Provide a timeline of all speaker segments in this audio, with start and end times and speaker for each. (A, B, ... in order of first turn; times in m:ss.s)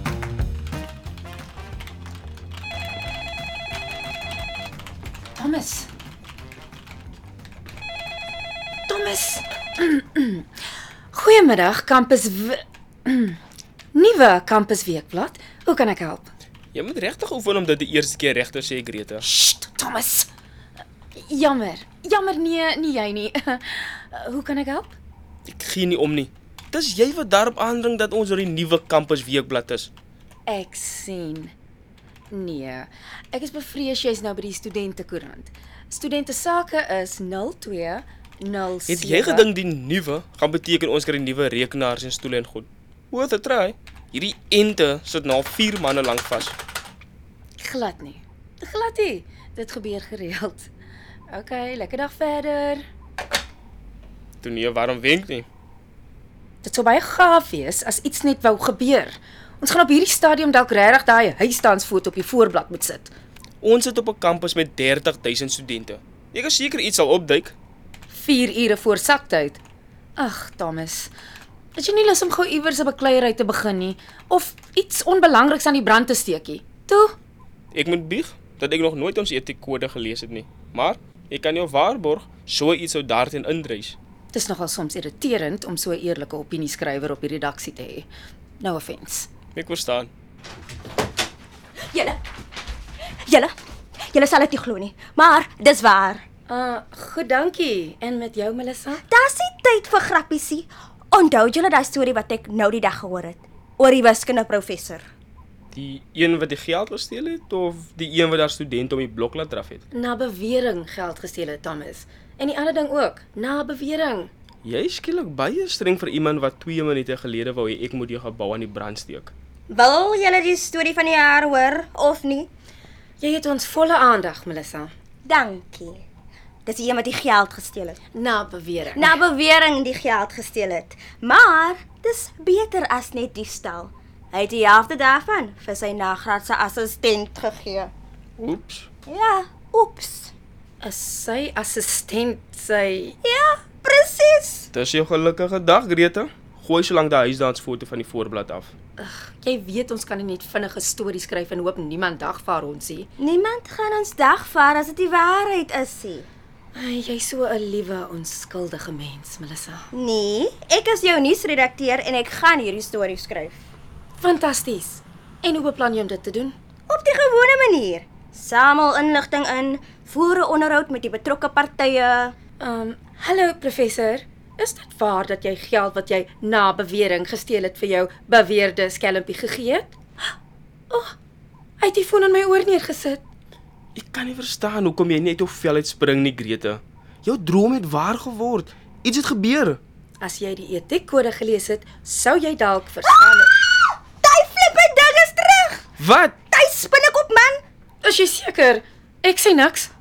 0:05.4-0:05.9 A
0:08.9-0:10.5 A
0:11.1-0:13.4 A
0:13.9-0:16.3 A
0:16.7-0:19.3 B
0:19.2-0:20.3 A
0:21.2-0:25.0 A
0:25.4-0:29.9 B
0:30.5-0:31.5 A
0:32.3-0:39.5 A
0:38.9-0:46.6 B
0:47.6-0:50.7 A
0:51.3-0:52.9 A
0:54.4-0:55.5 B
0:56.6-1:03.1 A
1:03.6-1:07.6 B
1:08.1-1:09.6 A
1:10.2-1:11.1 A
1:11.8-1:17.2 A
1:17.7-1:24.0 B
1:24.3-1:28.1 A
1:28.6-1:29.3 A
1:29.6-1:30.1 B
1:31.9-1:32.2 C
1:33.3-1:33.5 C
1:34.1-1:36.2 C
1:36.5-1:39.0 A
1:39.1-1:45.1 C
1:45.7-1:49.8 B
1:49.9-1:54.3 A
1:54.6-1:59.3 B
1:59.7-2:02.5 C
2:03.2-2:04.9 A
2:05.2-2:06.0 C
2:06.7-2:08.0 C
2:08.1-2:09.2 A
2:09.0-2:17.9 C
2:18.4-2:18.9 B
2:19.1-2:20.3 C
2:20.8-2:23.2 A
2:23.2-2:24.7 C
2:24.7-2:28.7 B
2:29.0-2:33.1 A
2:33.2-2:36.3 C
2:36.8-2:39.9 A
2:39.9-2:43.6 C
2:44.2-2:46.6 A
2:46.9-2:52.4 C
2:52.6-3:00.0 A
3:00.9-3:01.2 A
3:01.8-3:03.2 A
3:04.0-3:09.8 B
3:10.2-3:13.5 A
3:13.7-3:15.8 C
3:16.0-3:16.5 B
3:16.5-3:17.6 C
3:18.0-3:19.9 A